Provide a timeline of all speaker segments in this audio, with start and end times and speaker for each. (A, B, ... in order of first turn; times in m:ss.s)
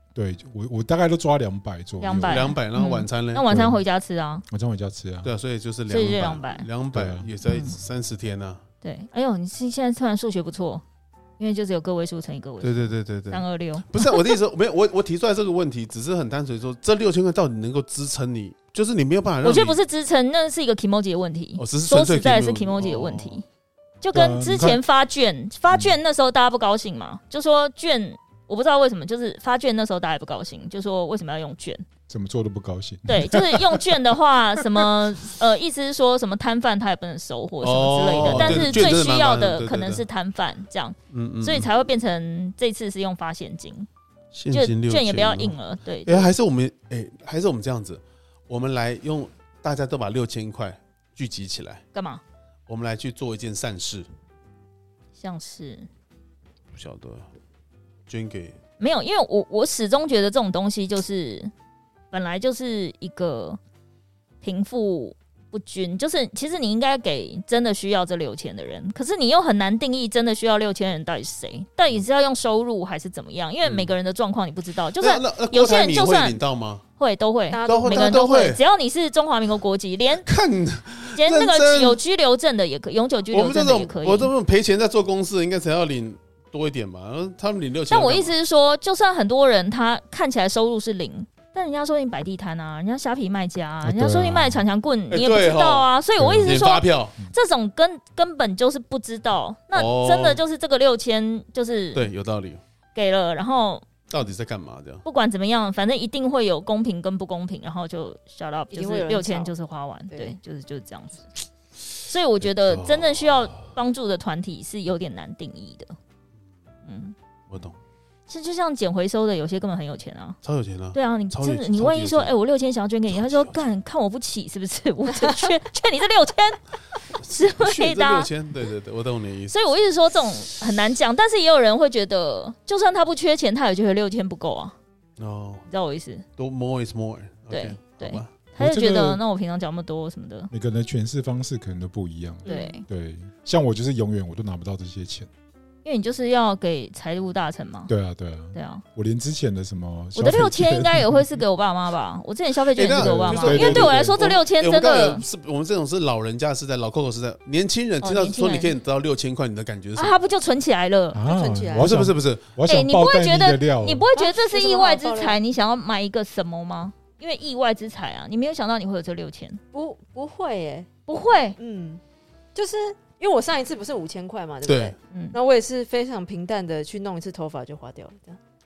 0:00.1-0:02.5 A
0:02.0-0:04.4 B
0:02.2-0:03.4 C
0:03.5-0:03.8 A
0:04.5-0:05.3 A
0:05.2-0:08.6 C
0:05.9-0:06.7 B
0:06.9-0:07.3 A
0:07.4-0:07.7 B
0:08.8-0:10.8 B
0:11.4-0:14.2 B
0:12.6-0:19.8 C
0:19.4-0:23.4 B
0:21.6-0:23.4 C
0:24.0-0:31.8 B
0:24.1-0:24.8 A
0:32.1-0:33.9 A
0:33.0-0:43.9 B
0:34.6-0:34.9 A
0:37.6-0:40.0 C
0:38.2-0:38.8 A
0:41.1-0:41.7 C
0:44.3-0:45.5 C
0:44.5-0:46.3 B
0:46.0-0:51.8 C
0:51.9-0:52.2 B
0:52.7-0:54.1 C
0:55.2-0:55.9 B
0:56.7-0:57.2 C
0:58.1-0:58.6 C
0:58.8-1:01.5 B
1:02.1-1:03.6 B
1:04.4-1:16.4 B
1:13.6-1:13.9 C
1:15.0-1:16.8 C
1:17.0-1:20.3 B
1:17.5-1:18.3 D
1:17.6-1:18.6 C
1:20.2-1:22.0 C
1:21.1-1:24.3 B
1:23.3-1:28.3 C
1:27.9-1:42.1 B
1:33.8-1:34.6 A
1:35.1-1:35.9 C
1:36.2-1:36.5 A
1:36.4-1:37.1 C
1:39.7-1:40.4 C
1:41.9-1:42.6 C
1:42.9-1:43.8 B
1:44.1-1:45.0 C
1:45.0-1:51.3 B
1:48.7-1:49.5 D
1:50.1-1:50.4 D
1:52.0-1:55.9 B
1:52.4-1:53.6 C
1:56.8-1:57.1 B
1:57.5-1:57.8 C
1:58.3-2:00.4 B
2:00.4-2:02.3 C
2:00.9-2:06.6 B
2:03.1-2:03.6 C
2:07.2-2:09.5 C
2:07.3-2:08.3 B
2:09.5-2:14.7 B
2:15.2-2:15.6 C
2:15.7-2:16.2 B
2:16.4-2:18.3 C
2:17.5-2:20.5 B
2:18.6-2:19.2 A
2:20.5-2:25.3 A
2:22.4-2:22.7 D
2:22.4-2:22.8 B
2:25.8-2:27.9 B
2:27.9-2:31.4 A
2:28.5-2:28.8 B
2:30.1-2:35.2 B
2:32.7-2:40.2 C
2:32.9-2:34.2 A
2:38.0-2:38.7 B
2:40.0-2:41.2 B
2:41.1-2:44.0 A
2:41.2-2:41.9 D
2:41.8-2:42.4 C
2:42.6-2:49.6 B
2:44.1-2:45.4 D
2:49.7-2:50.9 D
2:51.1-2:51.6 B
2:51.6-2:52.0 D
2:52.5-2:58.4 D
2:54.6-2:54.9 C